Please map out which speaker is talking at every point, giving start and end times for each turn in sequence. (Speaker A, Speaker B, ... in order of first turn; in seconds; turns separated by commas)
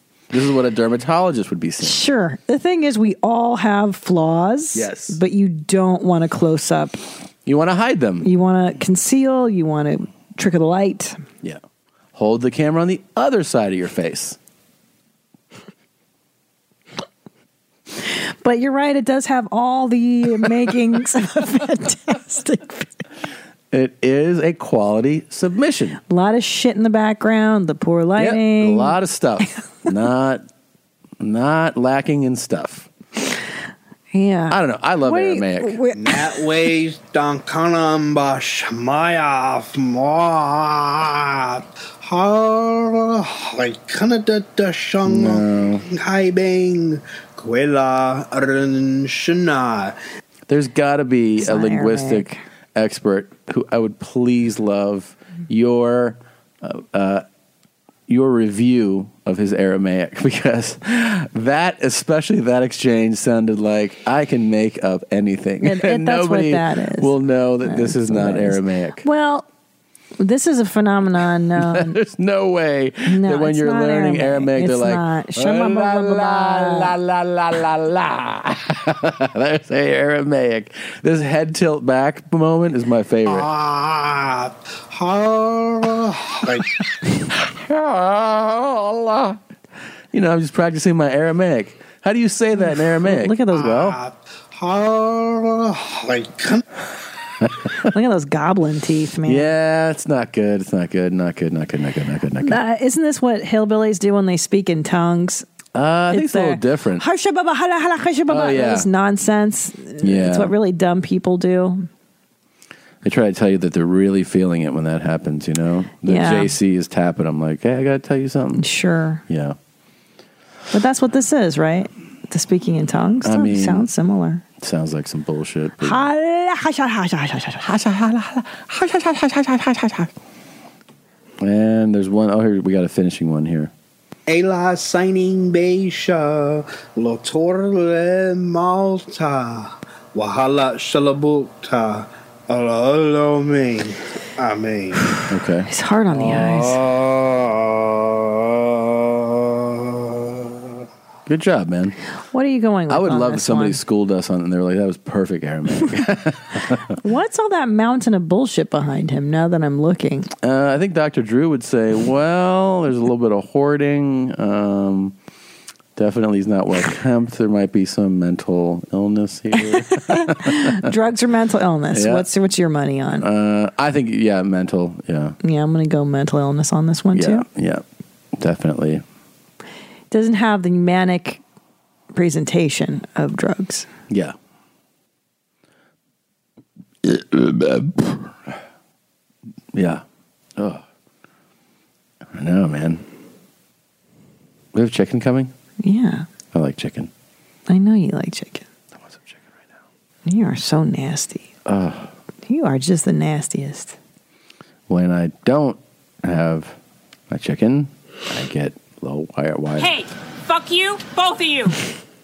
Speaker A: 0.3-2.0, Speaker B: 1.8-7.0, Speaker A: 4.7-5.2, Speaker A: 7.5-8.3, Speaker B: 8.2-11.2, Speaker A: 12.1-14.4, Speaker B: 18.0-23.0, Speaker A: 23.7-26.0, Speaker B: 26.1-28.9, Speaker A: 28.2-30.4, Speaker A: 31.2-32.9, Speaker B: 34.1-36.6, Speaker A: 34.5-35.8, Speaker C: 35.9-50.0, Speaker A: 45.0-45.8, Speaker A: 50.5-57.2, Speaker B: 51.4-52.4, Speaker A: 58.1-69.0, Speaker B: 65.6-69.4, Speaker B: 70.2-72.0, Speaker A: 71.6-83.5, Speaker B: 73.1-76.9, Speaker C: 83.3-86.7, Speaker A: 87.5-89.4, Speaker A: 90.1-94.0, Speaker B: 93.0-93.8, Speaker C: 93.5-96.6, Speaker B: 97.8-99.5, Speaker A: 99.2-102.6, Speaker B: 102.4-105.5, Speaker A: 105.7-107.0, Speaker B: 106.1-111.9, Speaker A: 108.3-108.9, Speaker A: 110.0-110.5, Speaker A: 113.0-118.6, Speaker B: 116.0-116.5, Speaker B: 118.6-119.2, Speaker A: 119.3-119.5, Speaker B: 120.7-124.4, Speaker A: 123.2-123.8, Speaker A: 124.6-126.0, Speaker B: 125.8-127.7, Speaker A: 127.6-130.1, Speaker A: 131.4-133.7, Speaker C: 134.3-145.1, Speaker B: 145.1-146.8, Speaker A: 145.3-145.7, Speaker C: 146.1-150.7, Speaker A: 151.3-152.0, Speaker B: 152.3-153.8, Speaker A: 152.9-156.9, Speaker B: 157.0-160.3, Speaker A: 160.4-165.1, Speaker A: 165.9-170.9, Speaker B: 169.9-173.3, Speaker A: 171.9-172.2, Speaker A: 173.2-175.3, Speaker B: 175.4-177.4, Speaker A: 177.1-177.8, Speaker A: 178.4-179.0, Speaker B: 180.1-181.4, Speaker B: 182.1-183.9, Speaker A: 184.1-184.3, Speaker A: 187.0-188.6, Speaker A: 189.7-190.0, Speaker A: 190.6-190.8, Speaker A: 192.3-193.0, Speaker A: 194.7-195.5, Speaker B: 195.8-196.3, Speaker A: 196.5-197.1, Speaker B: 197.7-198.7, Speaker A: 199.0-199.6, Speaker B: 200.2-201.5, Speaker A: 201.7-202.1, Speaker B: 202.5-203.9, Speaker A: 204.9-206.8, Speaker A: 207.3-210.0, Speaker D: 209.8-211.8